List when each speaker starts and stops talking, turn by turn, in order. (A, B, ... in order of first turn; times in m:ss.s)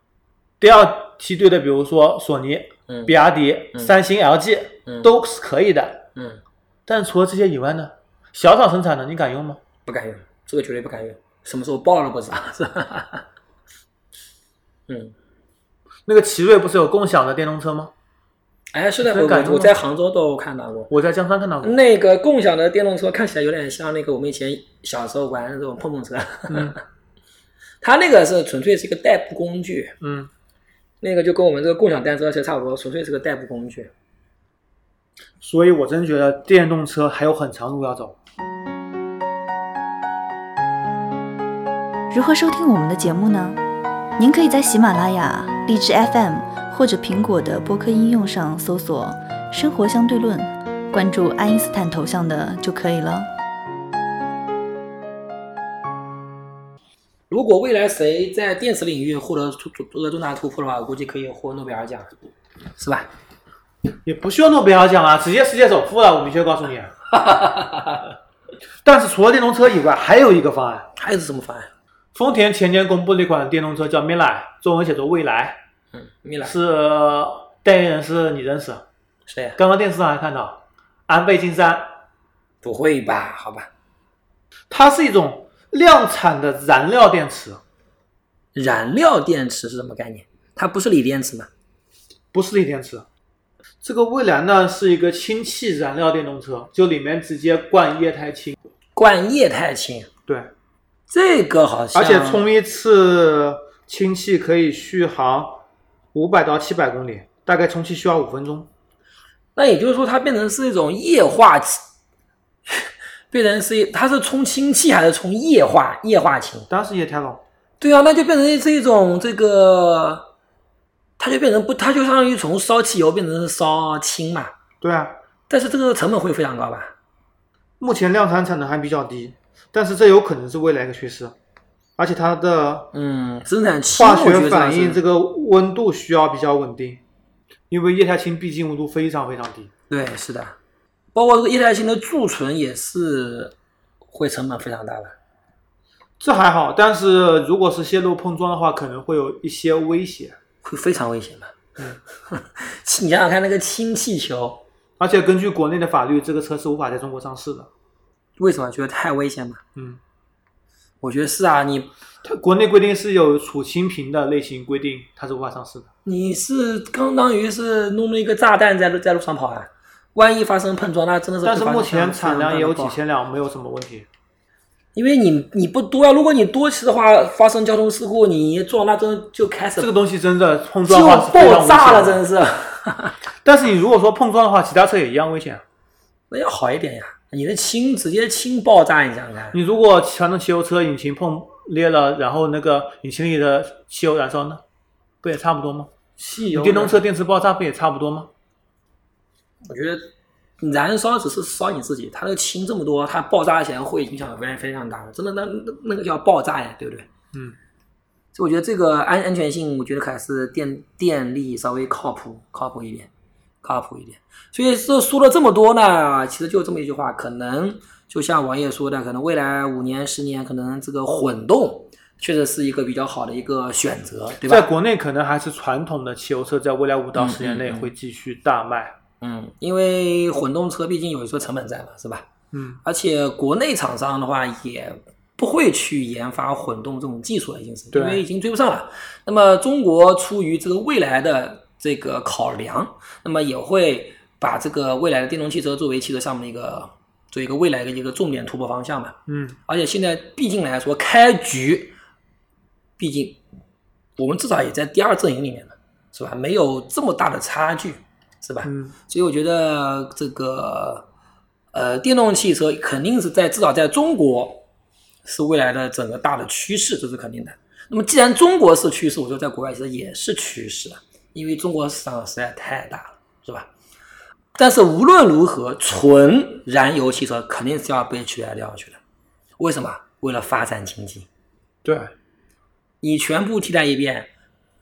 0:00.6-0:06.0 A
0:02.9-0:03.2 B
0:04.9-0:05.1 B
0:06.2-0:06.4 B
0:06.9-0:09.6 A
0:09.9-0:13.3 B
0:14.9-0:15.1 B
0:16.1-0:17.9 A
0:18.7-0:20.9 B
0:19.0-0:19.8 A
0:20.9-0:21.8 A
0:21.6-0:26.8 B
0:26.5-0:26.8 A
0:27.8-0:30.0 B
0:30.0-0:30.3 A
0:31.0-0:33.9 B
0:35.4-0:38.2 A
0:42.1-0:43.6 C
0:44.2-0:53.3 C
0:57.3-1:02.1 B
1:02.8-1:03.1 B
1:04.0-1:06.9 A
1:07.1-1:08.1 B
1:08.8-1:10.9 A
1:11.0-1:11.7 B
1:12.2-1:15.6 A
1:15.9-1:16.6 B
1:16.4-1:18.8 A
1:19.3-1:19.6 B
1:19.6-1:21.9 A
1:22.6-1:23.7 B
1:24.7-1:27.6 A
1:28.6-1:31.5 B
1:32.3-1:33.1 A
1:33.8-1:38.6 A
1:39.0-1:40.1 B
1:41.1-1:42.5 B
1:41.9-1:45.6 A
1:46.1-1:48.7 A
1:49.6-1:51.8 B
1:52.7-1:56.7 B
1:56.7-1:57.4 A
1:57.8-2:00.3 B
2:01.2-2:04.5 B
2:04.8-2:05.2 A
2:05.5-2:06.9 B
2:07.8-2:11.4 A
2:12.0-2:12.9 A
2:12.9-2:15.0 B
2:14.0-2:17.0 A
2:17.7-2:19.7 A
2:19.9-2:20.6 B
2:21.2-2:23.6 B
2:24.1-2:25.2 B
2:26.2-2:30.4 A
2:30.6-2:31.6 B
2:32.3-2:34.6 B
2:35.0-2:37.7 A
2:38.4-2:39.6 B
2:41.0-2:41.9 B
2:42.2-2:45.9 A
2:46.0-2:53.0 B
2:51.4-2:54.1 A
2:55.0-2:59.9 B
2:59.8-3:02.2 A
3:00.8-3:03.2 B
3:03.4-3:05.6 A
3:06.3-3:09.6 B
3:09.5-3:14.6 A
3:15.2-3:15.9 A
3:16.2-3:17.0 B
3:16.5-3:18.3 A
3:19.7-3:20.0 B
3:20.6-3:27.1 B
3:28.3-3:33.1 B
3:33.6-3:44.7 B
3:44.4-3:49.0 A
3:47.2-3:47.9 B
3:49.2-3:52.3 B
3:52.5-3:52.8 A
3:52.8-4:11.9 B
3:57.9-3:58.2 A
4:09.3-4:09.6 A
4:13.0-4:13.4 B
4:14.2-4:21.1 B
4:18.6-4:18.9 A
4:21.7-4:24.6 B
4:25.2-4:33.7 B
4:34.6-4:39.0 B
4:39.6-4:41.3 B
4:41.8-4:42.1 A
4:43.0-4:44.3 B